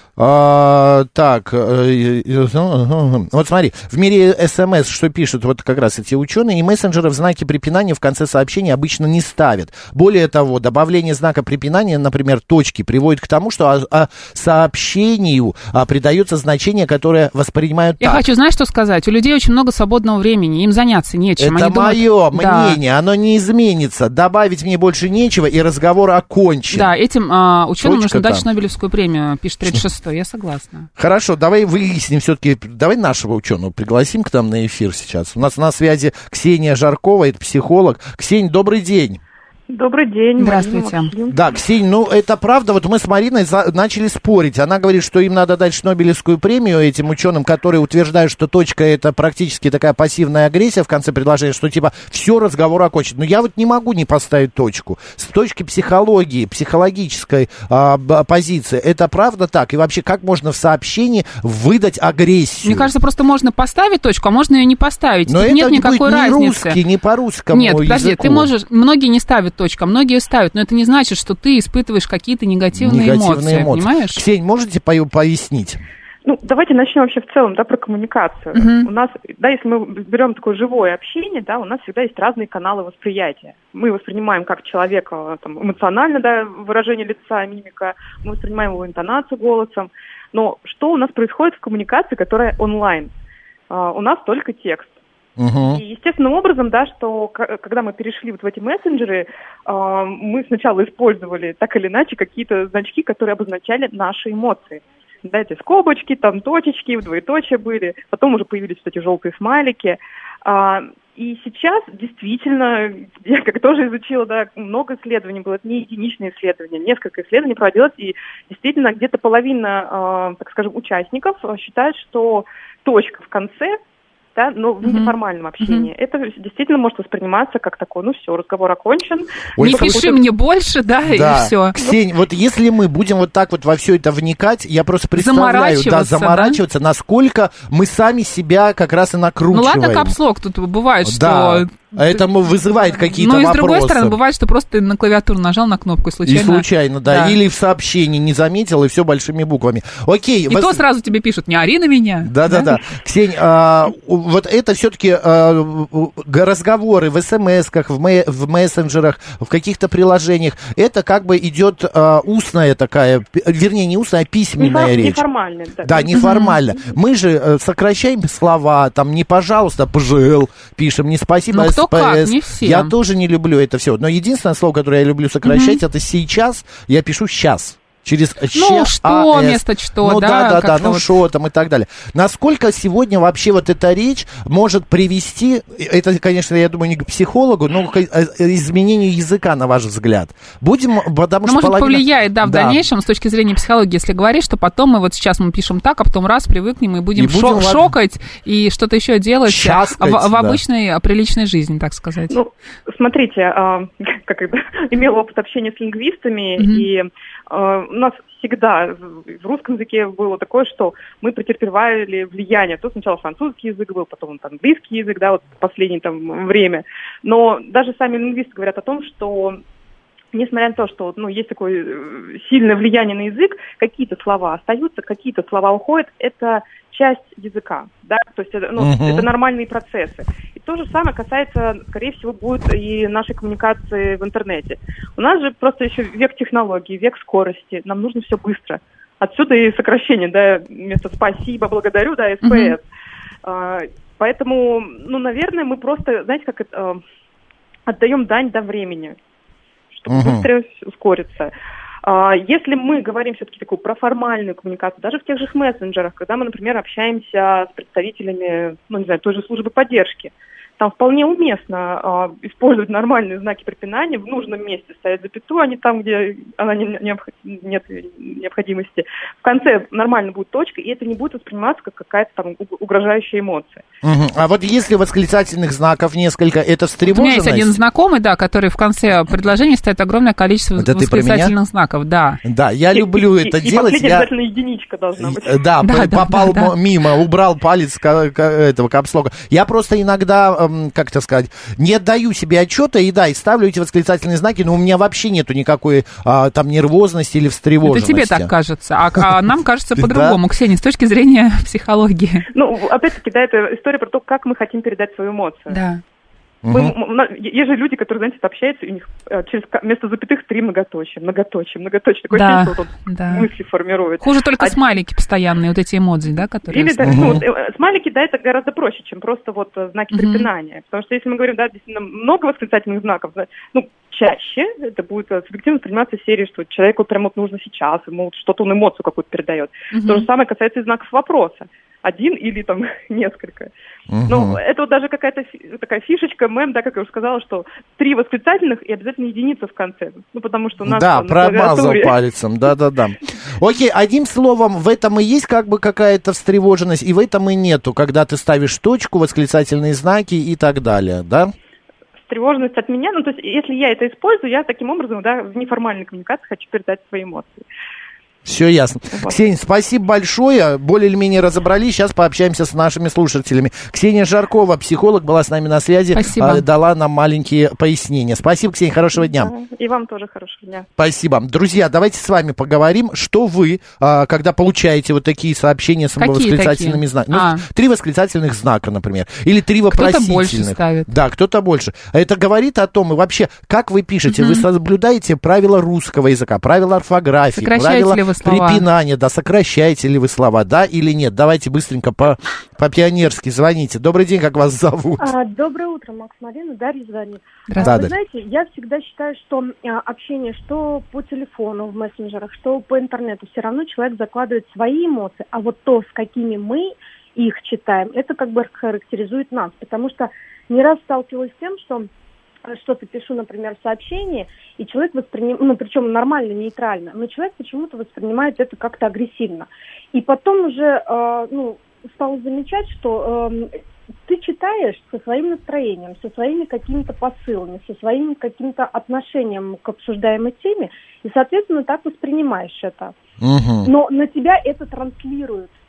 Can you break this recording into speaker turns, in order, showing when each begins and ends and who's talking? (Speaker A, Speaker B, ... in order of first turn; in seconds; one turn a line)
Speaker A: 0.2-18.2
Speaker B: 18.0-22.8
Speaker A: 21.4-26.9
Speaker B: 26.7-30.9
Speaker A: 27.8-28.4
Speaker A: 31.0-39.2
Speaker C: 39.7-41.4
Speaker B: 40.4-41.1
Speaker A: 41.3-62.9
Speaker B: 62.6-66.8
Speaker A: 65.3-68.5
Speaker B: 67.5-74.2
Speaker A: 72.7-75.8
Speaker C: 76.2-93.1
Speaker B: 78.5-78.9
Speaker C: 93.7-95.0
Speaker A: 95.4-95.8
Speaker C: 95.7-123.8
Speaker C: 124.3-130.2
Speaker B: 124.8-125.9
Speaker A: 129.6-130.1
Speaker B: 129.6-131.8
Speaker A: 131.1-140.2
Speaker B: 135.2-136.6
Speaker B: 139.5-142.2
Speaker A: 141.0-144.2
Speaker B: 142.9-147.4
Speaker A: 146.2-150.8
Speaker B: 150.5-152.8
Speaker A: 152.2-165.2
Speaker C: 164.6-166.2
Speaker A: 165.8-192.8
Speaker B: 166.1-166.6
Speaker B: 171.5-172.9
Speaker B: 175.4-175.8
Speaker B: 178.5-181.1
Speaker B: 191.4-202.4
Speaker A: 197.1-197.9
Speaker A: 199.4-200.6
Speaker C: 202.3-219.6
Speaker B: 206.6-206.8
Speaker C: 220.3-242.8
Speaker A: 228.8-229.3
Speaker B: 242.4-242.7
Speaker C: 243.4-247.0
Speaker C: 247.9-249.2
Speaker C: 249.9-251.5
Speaker A: 250.1-250.5
Speaker C: 252.0-273.8
Speaker A: 274.0-277.8
Speaker B: 277.1-282.4
Speaker A: 280.8-281.5
Speaker A: 282.4-284.3
Speaker C: 282.9-285.6
Speaker A: 285.2-298.5
Speaker B: 285.8-286.7
Speaker B: 297.8-302.4
Speaker A: 299.9-300.4
Speaker C: 302.5-305.8
Speaker B: 305.7-306.0
Speaker A: 306.6-306.9
Speaker C: 306.7-314.8
Speaker B: 312.3-313.5
Speaker B: 314.2-317.4
Speaker C: 316.7-333.7
Speaker A: 317.0-317.4
Speaker B: 320.1-320.5
Speaker B: 329.9-330.3
Speaker A: 334.1-334.6
Speaker C: 334.3-342.1
Speaker A: 340.8-351.5
Speaker C: 352.3-357.6
Speaker A: 358.4-369.5
Speaker B: 366.1-366.6
Speaker C: 369.2-370.9
Speaker A: 371.0-395.2
Speaker B: 376.2-377.6
Speaker B: 379.9-381.1
Speaker B: 384.3-384.6
Speaker B: 387.5-388.8
Speaker D: 395.2-412.1
Speaker B: 397.7-398.0
Speaker A: 397.8-398.1
Speaker D: 412.6-423.7
Speaker D: 424.2-433.1
Speaker A: 433.4-433.9
Speaker D: 433.8-435.7